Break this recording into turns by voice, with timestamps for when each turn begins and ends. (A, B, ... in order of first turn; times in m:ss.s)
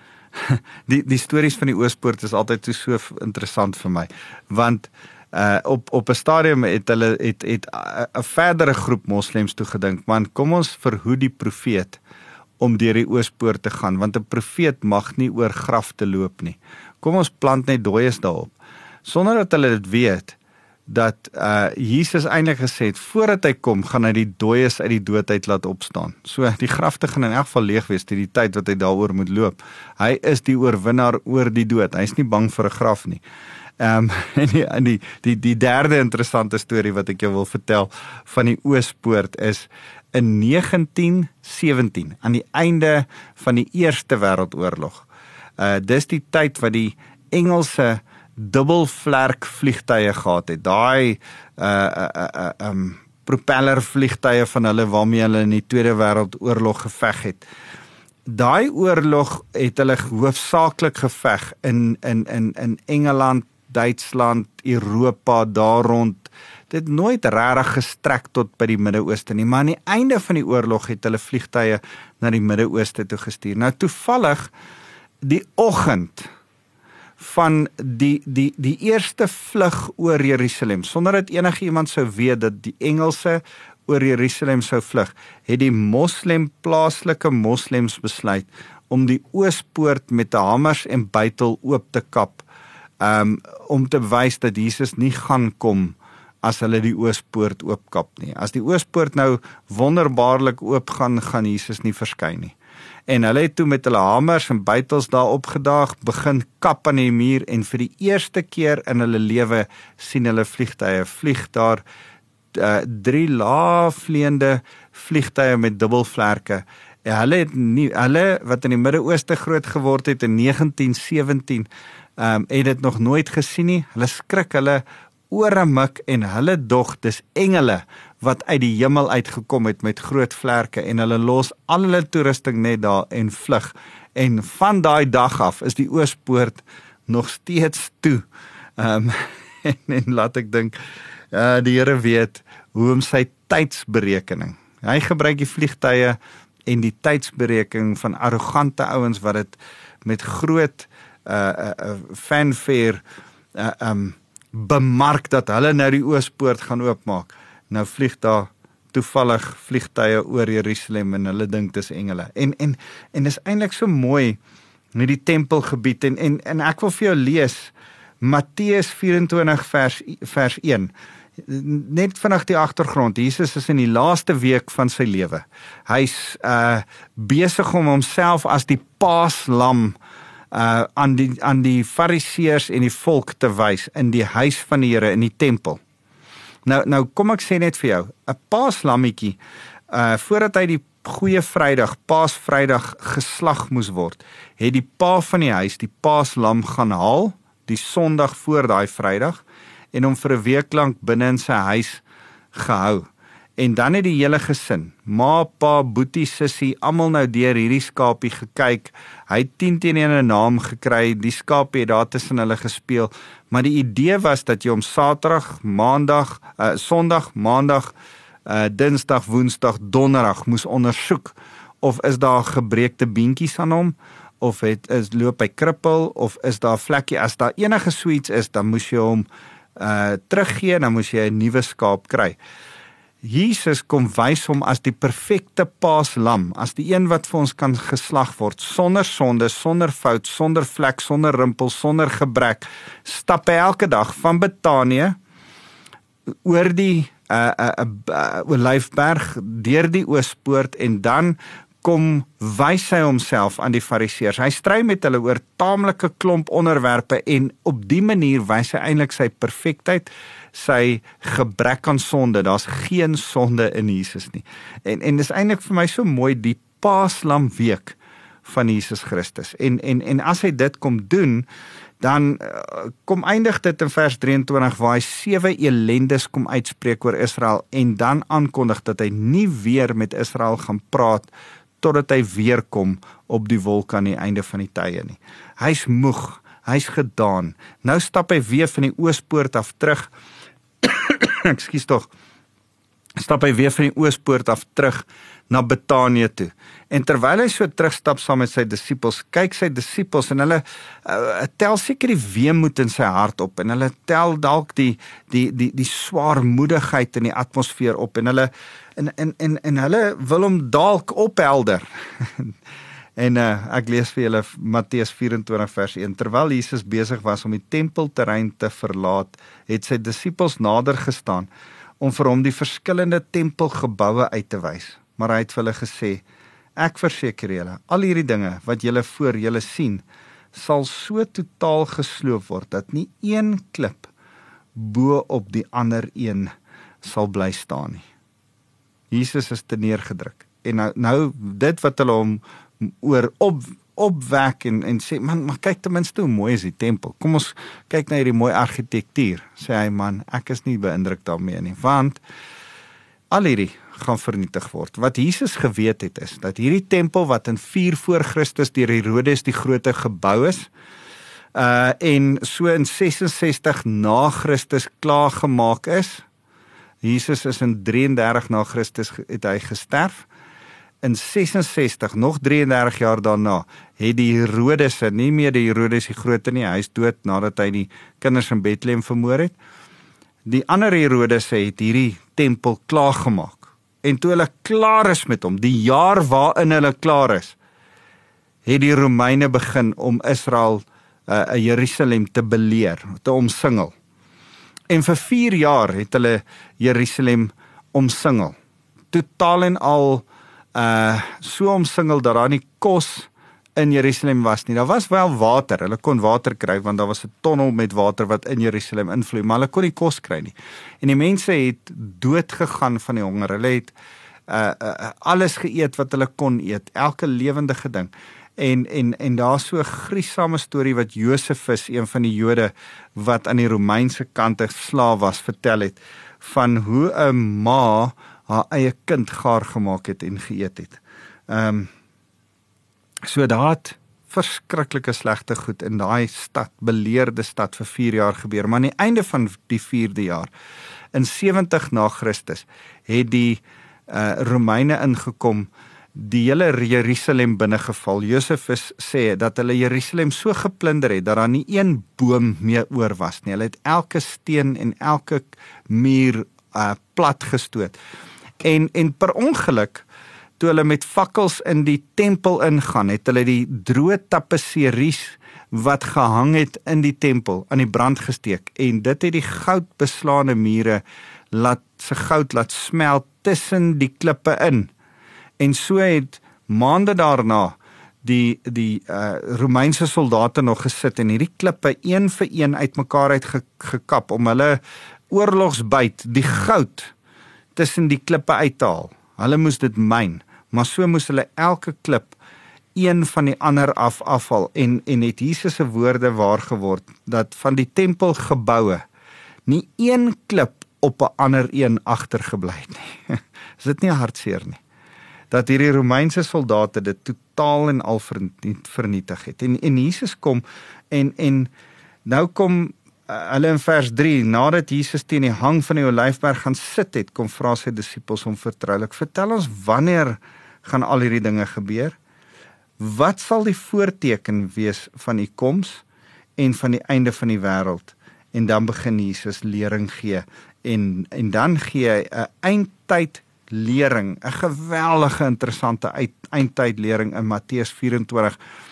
0:00.3-0:12.0 A
0:12.6-0:18.5 A
0:19.0-0:20.4 A
0:20.9-0:33.2 A
0:33.8-0:45.0 A
0:45.6-0:57.4 A
0:58.3-1:14.5 A
1:15.2-1:16.3 A
1:17.2-1:32.4 A
1:33.0-1:42.5 A
1:43.1-1:51.8 A
1:52.5-2:18.2 A
2:18.8-2:20.7 A
2:21.3-2:26.2 A
2:26.7-2:33.0 A
2:33.6-2:44.4 A
2:44.9-3:00.0 A
3:00.5-3:05.8 A
3:06.6-3:09.4 A
3:09.9-3:22.0 A
3:22.5-3:37.9 A
3:38.4-3:49.2 A
3:49.8-3:52.4 A
3:53.2-4:05.2 A
4:06.4-4:31.4 A
4:32.0-4:41.3 A
4:41.8-4:50.1 A
4:50.8-4:52.1 A
4:53.2-5:12.5 A
5:13.2-5:21.5 A
5:22.0-5:26.2 A
5:26.8-5:34.1 A
5:34.7-5:36.5 A
5:37.0-5:38.0 A
5:39.1-5:52.2 A
5:53.3-6:00.7 A
6:01.5-6:06.2 A
6:07.0-6:10.2 A
6:11.0-6:19.5 A
6:20.4-6:27.6 A
6:28.6-6:33.9 A
6:34.9-6:38.6 A
6:39.1-6:53.9 A
6:54.5-7:11.9 A
7:13.2-7:20.5 A
7:21.1-7:38.0 A
7:38.6-7:40.0 A
7:40.6-7:54.9 A
7:55.6-8:07.1 A
8:07.7-8:12.4 A
8:12.9-8:19.0 A
8:19.6-8:24.8 A
8:25.5-8:31.7 A
8:32.2-8:42.2 A
8:43.0-8:46.0 A
8:46.6-8:58.6 A